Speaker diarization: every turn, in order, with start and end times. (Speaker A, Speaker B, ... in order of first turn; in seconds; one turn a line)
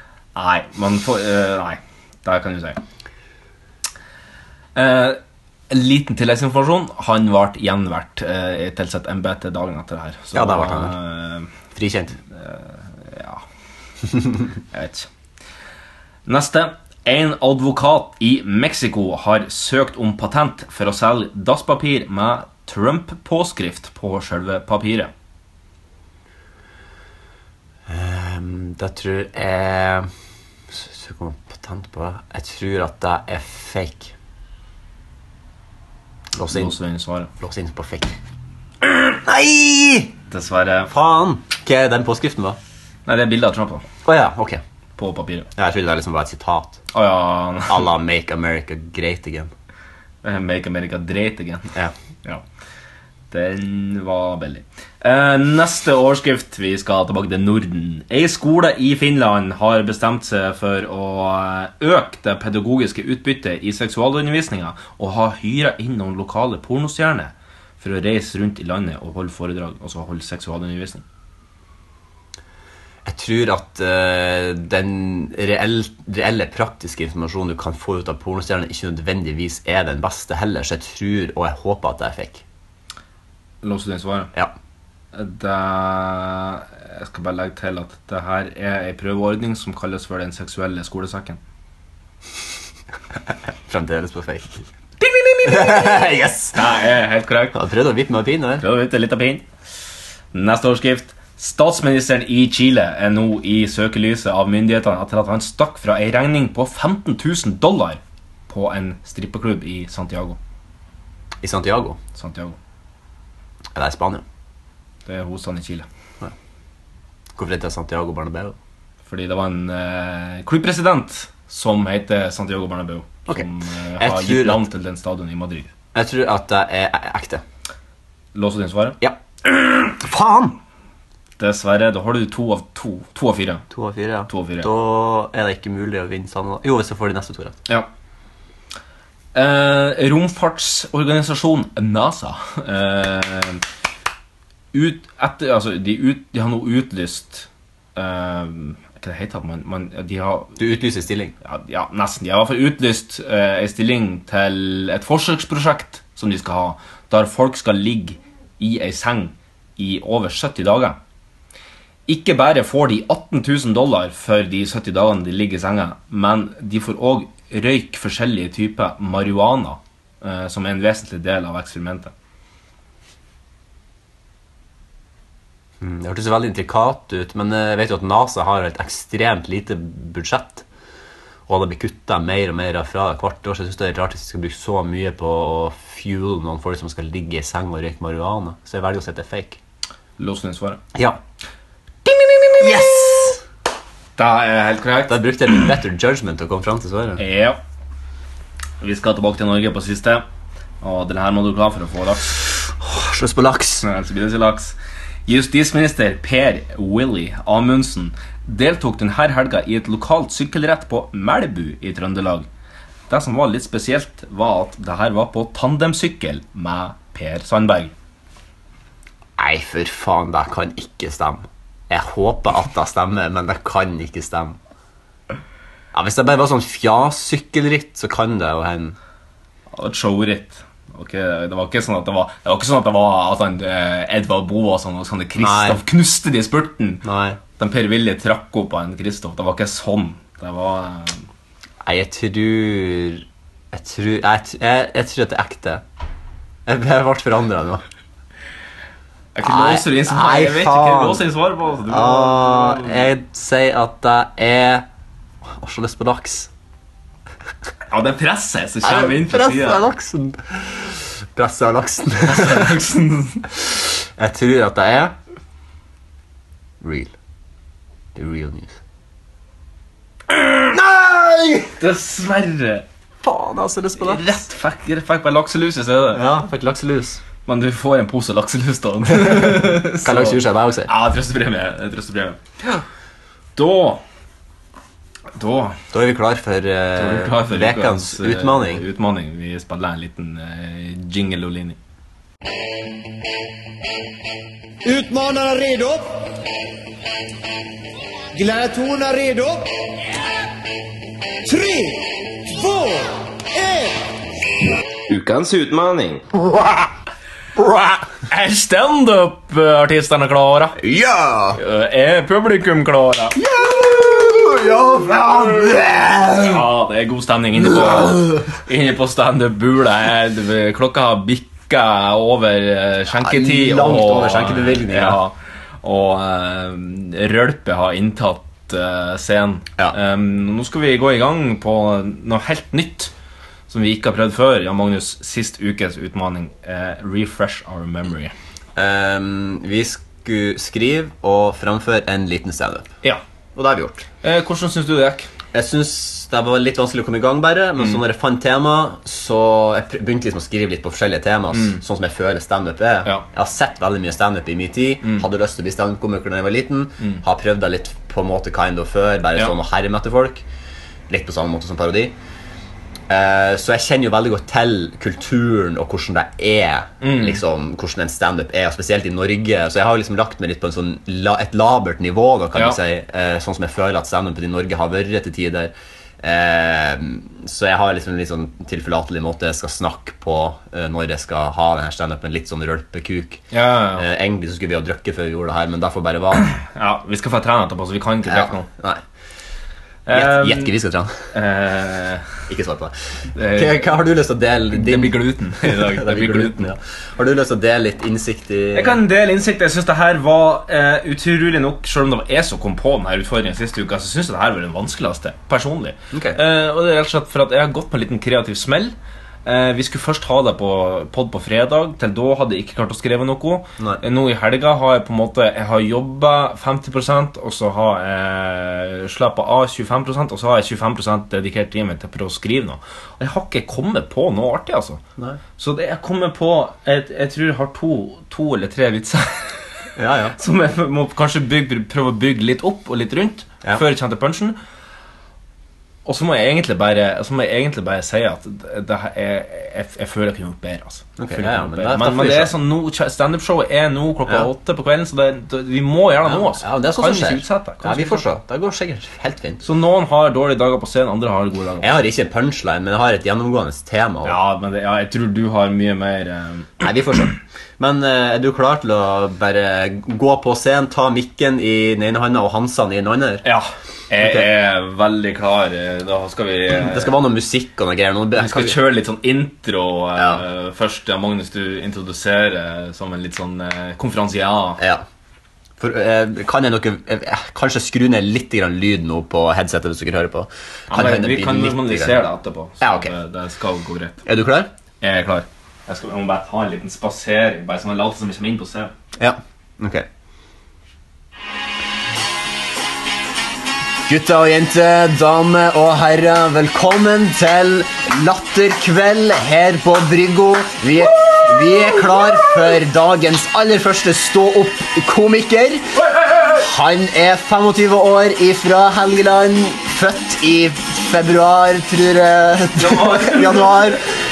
Speaker A: 0.3-2.8
Speaker A: 4.7-11.5
Speaker B: 10.3-11.0
Speaker B: 11.7-12.2
Speaker A: 12.3-13.4
Speaker A: 14.7-15.1
Speaker A: 16.2-25.1
Speaker B: 27.9-30.1
Speaker B: 30.7-34.1
Speaker B: 36.4-36.7
Speaker A: 36.5-37.3
Speaker B: 37.4-38.1
Speaker B: 38.9-40.1
Speaker A: 40.3-40.9
Speaker B: 40.9-42.6
Speaker A: 43.0-43.8
Speaker B: 44.0-44.6
Speaker A: 45.0-45.5
Speaker B: 45.5-46.8
Speaker A: 46.9-47.9
Speaker B: 47.7-49.5
Speaker A: 50.2-51.7
Speaker A: 53.3-71.0
Speaker B: 73.0-82.4
Speaker A: 83.6-84.3
Speaker A: 85.1-91.4
Speaker B: 93.7-94.6
Speaker A: 95.0-97.6
Speaker B: 95.4-96.6
Speaker B: 97.5-98.6
Speaker A: 98.6-99.5
Speaker A: 100.3-110.4
Speaker B: 111.4-112.0
Speaker A: 112.2-112.6
Speaker B: 113.7-114.2
Speaker A: 115.0-115.9
Speaker B: 117.3-118.5
Speaker A: 119.0-125.7
Speaker B: 124.0-124.6
Speaker B: 125.9-127.4
Speaker A: 128.3-129.0
Speaker B: 129.0-130.6
Speaker A: 131.4-133.6
Speaker B: 133.7-137.6
Speaker A: 134.3-134.7
Speaker A: 139.3-143.6
Speaker A: 144.7-150.6
Speaker B: 150.6-151.3
Speaker A: 151.4-161.0
Speaker A: 162.1-172.1
Speaker B: 175.8-180.6
Speaker B: 181.5-189.6
Speaker A: 190.2-190.8
Speaker A: 192.1-192.8
Speaker B: 192.6-193.4
Speaker A: 194.2-195.6
Speaker B: 195.1-197.2
Speaker A: 197.2-197.6
Speaker A: 198.8-200.2
Speaker A: 200.8-202.3
Speaker B: 202.8-203.8
Speaker A: 203.8-212.5
Speaker A: 213.1-217.9
Speaker B: 219.4-224.6
Speaker B: 225.9-229.0
Speaker A: 229.7-237.0
Speaker B: 235.4-235.8
Speaker B: 237.0-237.4
Speaker A: 237.6-241.2
Speaker B: 241.8-245.8
Speaker B: 246.7-247.8
Speaker A: 249.3-253.1
Speaker B: 249.4-251.2
Speaker B: 251.9-254.8
Speaker B: 255.6-256.5
Speaker A: 257.9-259.8
Speaker B: 258.8-262.7
Speaker A: 262.2-263.4
Speaker B: 264.2-265.1
Speaker B: 266.8-267.1
Speaker B: 268.1-268.8
Speaker B: 270.6-271.7
Speaker A: 271.8-272.9
Speaker B: 273.2-274.2
Speaker A: 274.0-276.2
Speaker B: 276.1-277.2
Speaker A: 277.4-282.4
Speaker B: 279.2-280.9
Speaker A: 283.6-284.0
Speaker A: 285.3-285.8
Speaker B: 285.9-288.8
Speaker A: 286.9-291.8
Speaker C: 294.9-296.0
Speaker C: 298.4-299.7
Speaker A: 305.1-306.2
Speaker B: 307.6-308.0
Speaker A: 308.3-310.8
Speaker B: 310.8-311.6
Speaker A: 311.5-313.4
Speaker B: 313.4-316.6
Speaker A: 316.3-333.1
Speaker B: 323.1-325.2
Speaker A: 333.7-338.3
Speaker B: 338.8-342.9
Speaker B: 343.6-344.0
Speaker A: 344.2-345.3
Speaker B: 345.5-360.4
Speaker A: 347.8-348.0
Speaker A: 351.5-351.8
Speaker B: 361.1-362.1
Speaker B: 363.1-383.4
Speaker A: 367.0-367.4
Speaker A: 383.5-384.1
Speaker B: 384.0-386.5
Speaker A: 386.6-388.7
Speaker B: 388.3-389.0
Speaker A: 390.1-390.7
Speaker B: 390.1-391.1
Speaker A: 391.3-392.2
Speaker B: 392.5-392.9
Speaker A: 393.3-393.9
Speaker B: 393.5-399.0
Speaker A: 394.7-396.7
Speaker A: 398.7-425.0
Speaker B: 406.1-406.4
Speaker A: 425.6-429.5
Speaker B: 430.0-430.3
Speaker A: 430.4-434.6
Speaker A: 436.0-448.2
Speaker B: 441.2-442.5
Speaker B: 446.3-449.6
Speaker A: 449.6-451.9
Speaker B: 451.8-454.4
Speaker A: 454.2-456.8
Speaker B: 456.8-463.4
Speaker A: 463.4-467.1
Speaker B: 464.2-464.5
Speaker B: 466.7-468.8
Speaker A: 468.3-474.8
Speaker B: 470.1-470.4
Speaker B: 474.8-475.0
Speaker B: 475.8-482.2
Speaker A: 480.9-484.2
Speaker B: 482.8-483.1
Speaker B: 484.2-484.7
Speaker A: 485.0-488.9
Speaker B: 489.2-490.1
Speaker B: 494.1-505.9
Speaker B: 506.5-514.0
Speaker A: 512.7-514.0